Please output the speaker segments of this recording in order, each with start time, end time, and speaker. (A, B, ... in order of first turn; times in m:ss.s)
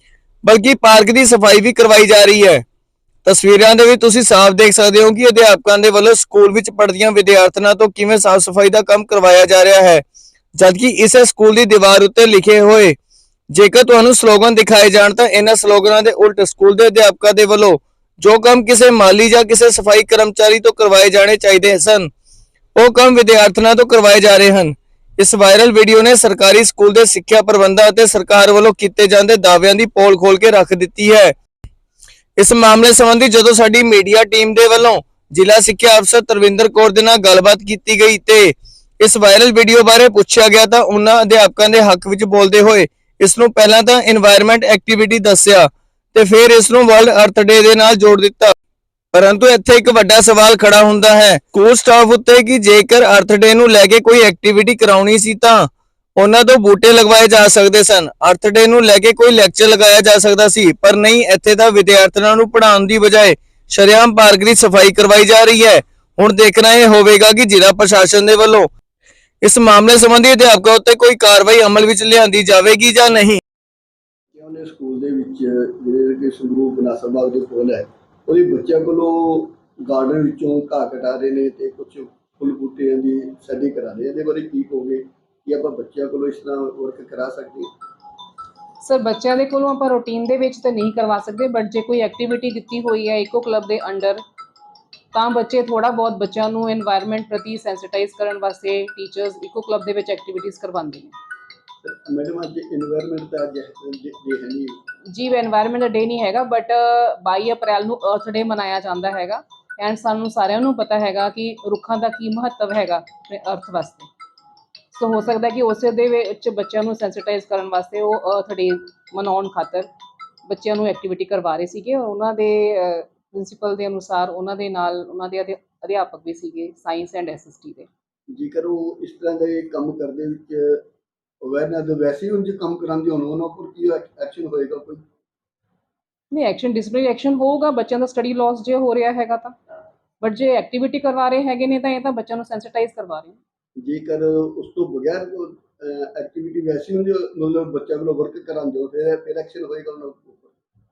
0:00.4-0:02.6 A
0:03.2-0:10.0 A
0:10.6-0:12.9 A
0:13.5-0:22.1 A
0:22.8-0:31.3 A
0:32.4-0:48.5 A
0:49.1-1:08.7 A
1:09.4-1:13.4 A
1:14.3-1:27.7 B
1:28.8-1:34.2 C
1:35.1-1:41.1 C
1:41.8-1:44.8 B
1:45.1-1:54.1 C
1:54.9-1:59.9 C
2:00.5-2:07.9 C
2:08.3-2:10.8 B
2:11.4-2:15.0 B
2:16.3-2:19.5 C
2:20.2-2:23.4 C
2:23.8-2:30.5 B